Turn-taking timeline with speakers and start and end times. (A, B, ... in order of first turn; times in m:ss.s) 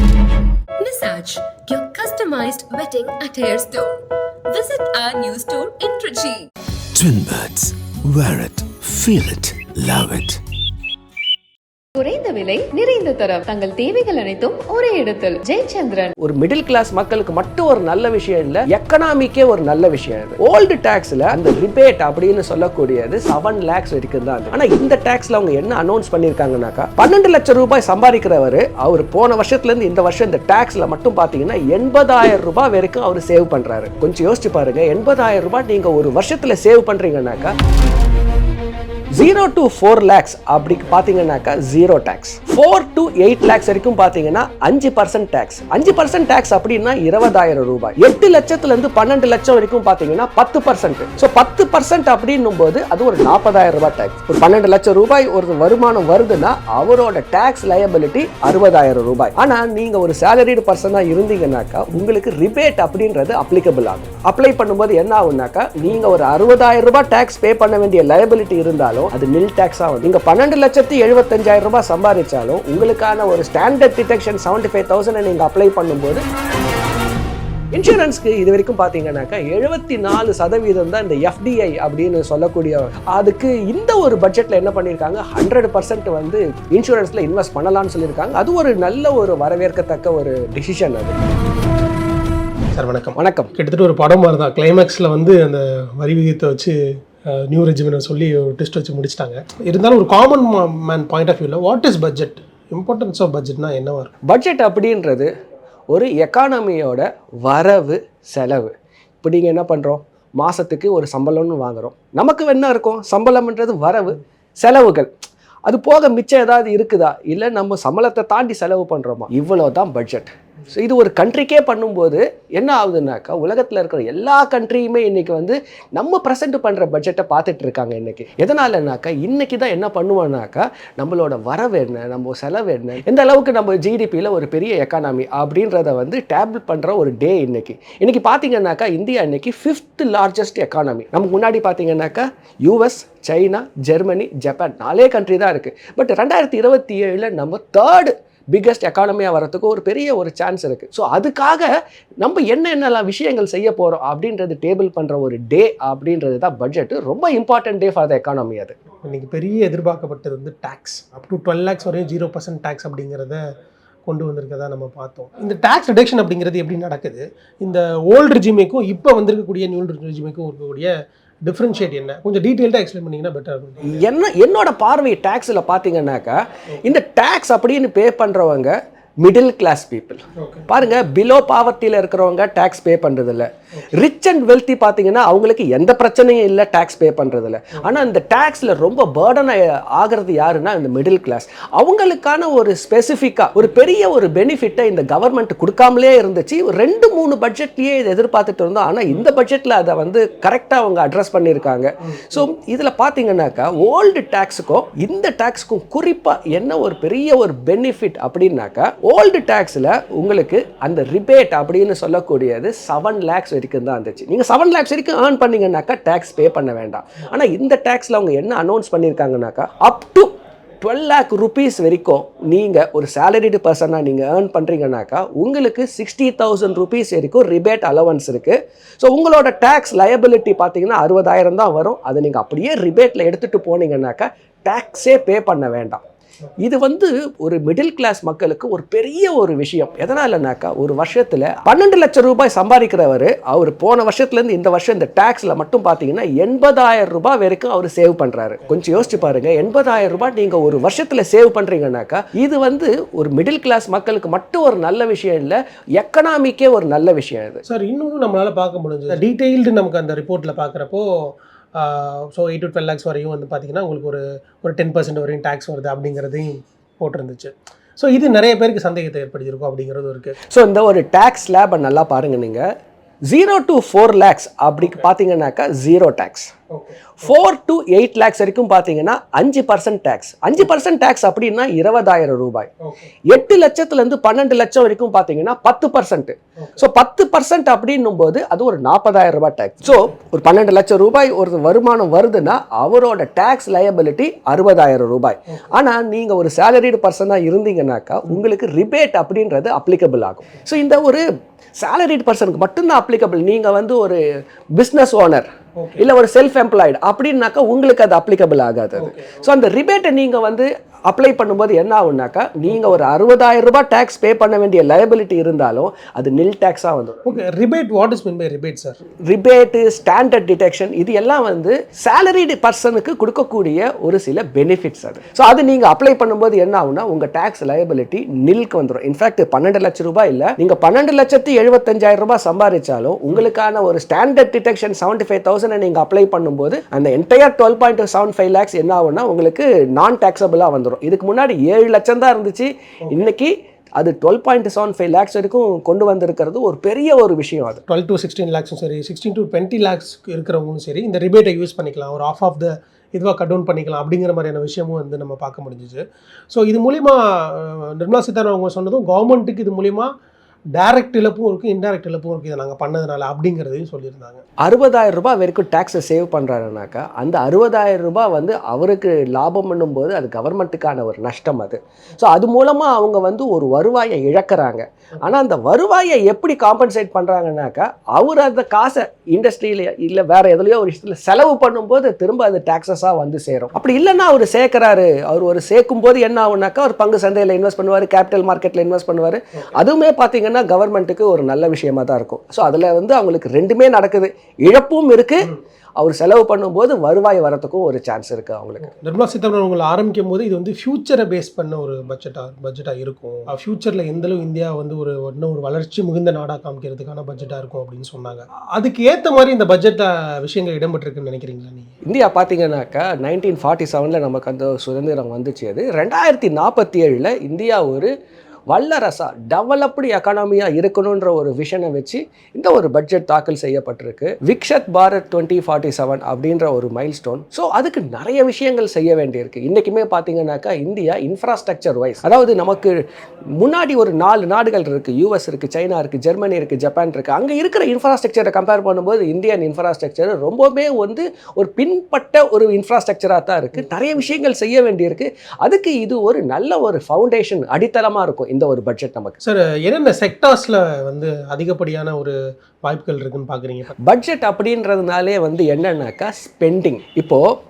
0:00.8-0:06.5 A
0:06.9-0:10.4 B
0:12.0-0:16.1 C
0:16.2-0:37.5 D
0:39.2-1:16.2 D
1:17.7-1:31.1 D
1:32.7-1:44.1 E
1:33.2-1:33.5 D
1:44.3-1:45.3 D
1:45.9-1:55.1 D
1:55.7-2:31.7 D
2:32.2-2:38.7 D
2:39.0-2:43.4 E
2:44.0-2:54.0 E
2:53.9-3:56.0 D
3:00.4-3:00.7 E
3:56.6-4:17.6 D
4:17.7-4:30.4 E
4:30.5-4:32.6 D
4:33.3-4:36.5 D
4:36.7-4:37.1 E
4:37.2-4:42.7 D
4:43.3-5:01.2 D
5:01.8-5:04.2 D
5:04.8-5:17.3 D
5:09.0-5:09.4 E
5:17.2-5:19.0 E
5:19.3-5:47.8 D
5:47.9-6:00.1 E
6:00.7-6:04.4 E
6:04.6-6:38.9 D
6:38.8-6:51.9 E
6:52.0-6:58.1 D
6:58.7-7:13.0 D
7:13.6-7:29.4 D
7:29.4-7:33.9 E
7:34.0-7:37.4 D